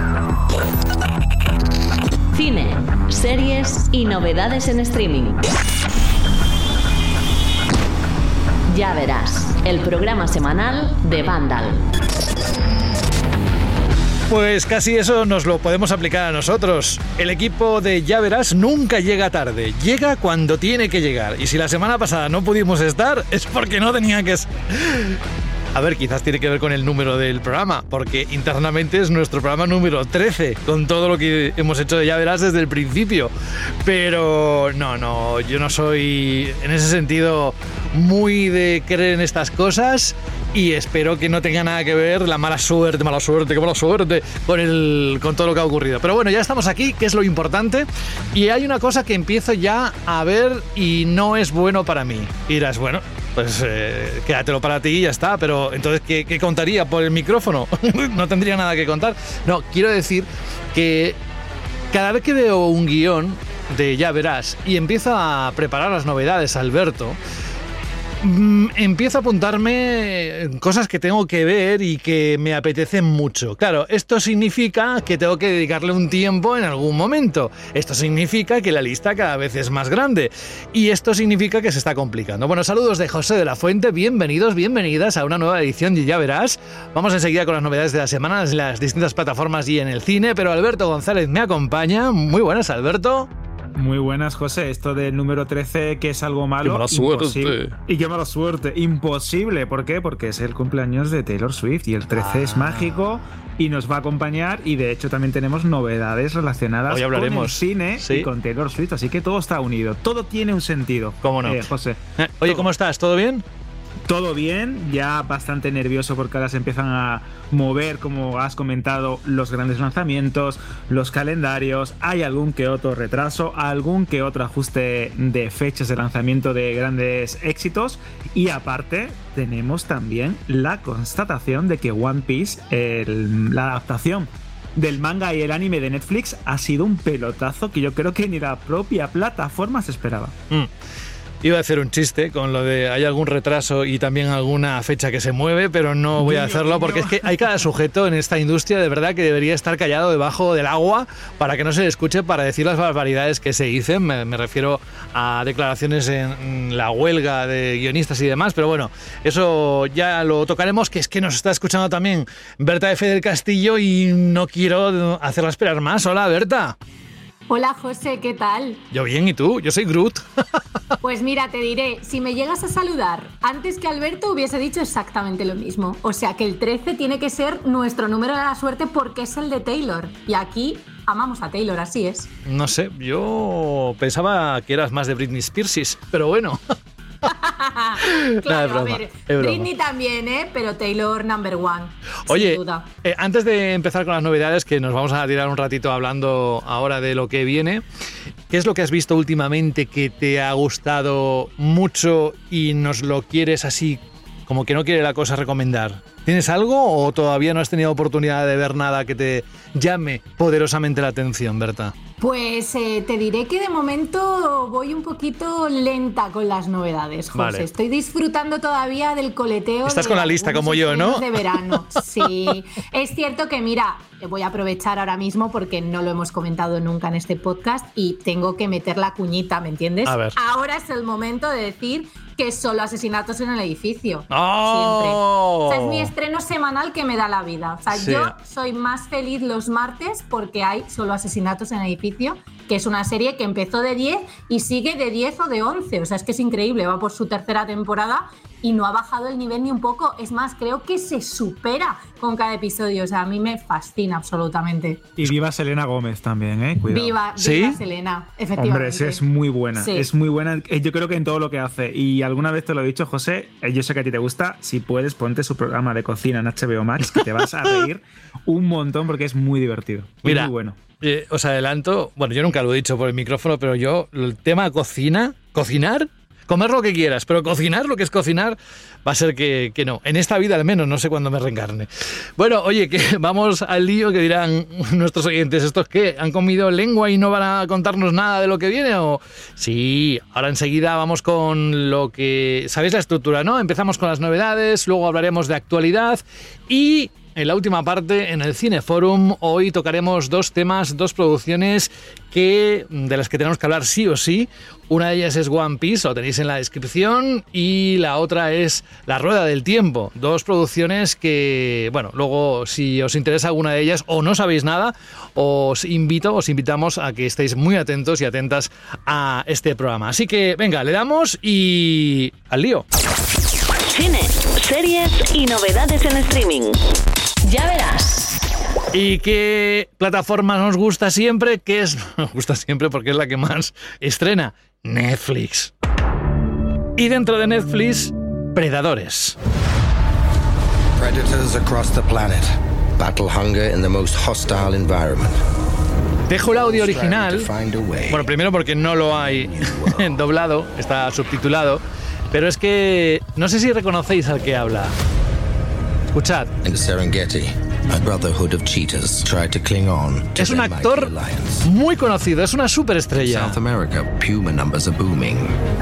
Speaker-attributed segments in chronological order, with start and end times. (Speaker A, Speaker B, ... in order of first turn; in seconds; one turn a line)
Speaker A: 2.4-5.4
Speaker A: 8.7-11.8
Speaker B: 14.3-25.2
Speaker B: 25.8-33.3
Speaker B: 33.8-61.2
Speaker B: 61.9-67.2
Speaker B: 68.2-93.3
Speaker C: 93.8-112.7
Speaker B: 96.6-97.7
Speaker B: 102.1-103.0
Speaker B: 106.9-108.3
Speaker B: 111.2-111.6
Speaker B: 112.2-113.4
Speaker C: 114.0-140.3
Speaker B: 141.4-166.8
Speaker C: 146.2-147.6
Speaker D: 167.5-168.8
Speaker B: 168.9-170.2
Speaker D: 171.0-182.3
Speaker B: 182.4-186.7
Speaker D: 187.3-192.9
Speaker B: 188.0-189.7
Speaker B: 192.3-197.8
Speaker B: 198.5-211.9
Speaker D: 212.2-255.1
Speaker B: 217.3-217.7
Speaker B: 219.8-221.8
Speaker B: 230.1-230.3
Speaker B: 234.3-236.1
Speaker B: 237.9-238.3
Speaker C: 255.2-257.2
Speaker D: 256.9-259.2
Speaker B: 257.4-257.8
Speaker C: 258.6-270.8
Speaker D: 259.8-260.1
Speaker B: 270.2-322.9
Speaker A: 323.9-326.9
Speaker A: 327.4-328.4
Speaker B: 328.9-335.7
Speaker B: 337.0-339.4
Speaker E: 341.0-345.4
Speaker B: 346.3-347.5
Speaker E: 346.5-348.4
Speaker B: 348.1-354.9
Speaker E: 349.6-350.2
Speaker B: 356.1-356.6
Speaker E: 356.6-361.7
Speaker B: 360.4-363.6
Speaker E: 363.1-365.6